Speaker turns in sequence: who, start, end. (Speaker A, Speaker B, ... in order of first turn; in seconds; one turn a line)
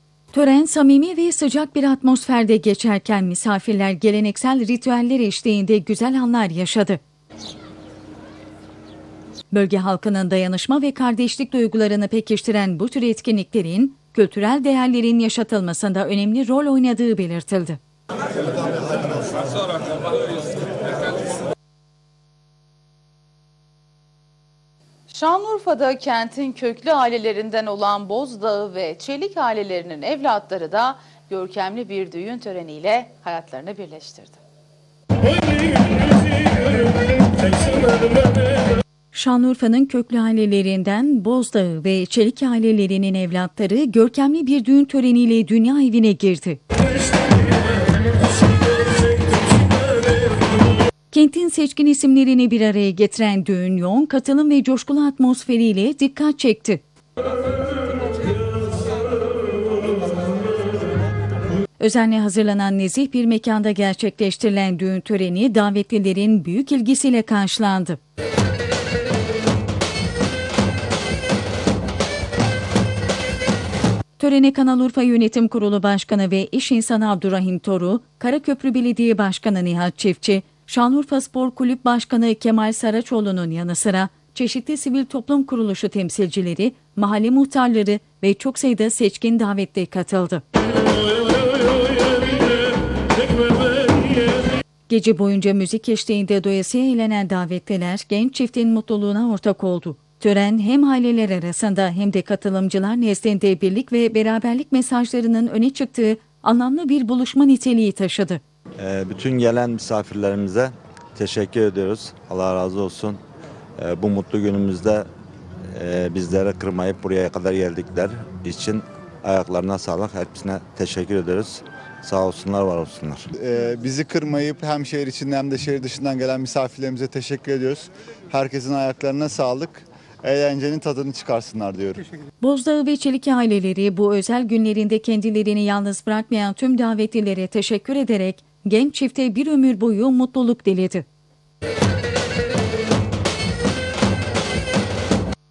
Speaker A: 0.3-7.0
Speaker A: 9.5-17.8
Speaker B: 25.1-34.4
Speaker A: 39.1-46.6
Speaker A: 51.1-56.8
Speaker A: 61.8-68.0
Speaker A: 74.2-90.4
Speaker A: 94.9-108.4
Speaker C: 108.8-113.2
Speaker C: 113.8-115.1
Speaker C: 115.7-123.3
Speaker D: 123.3-132.1
Speaker A: 132.4-141.1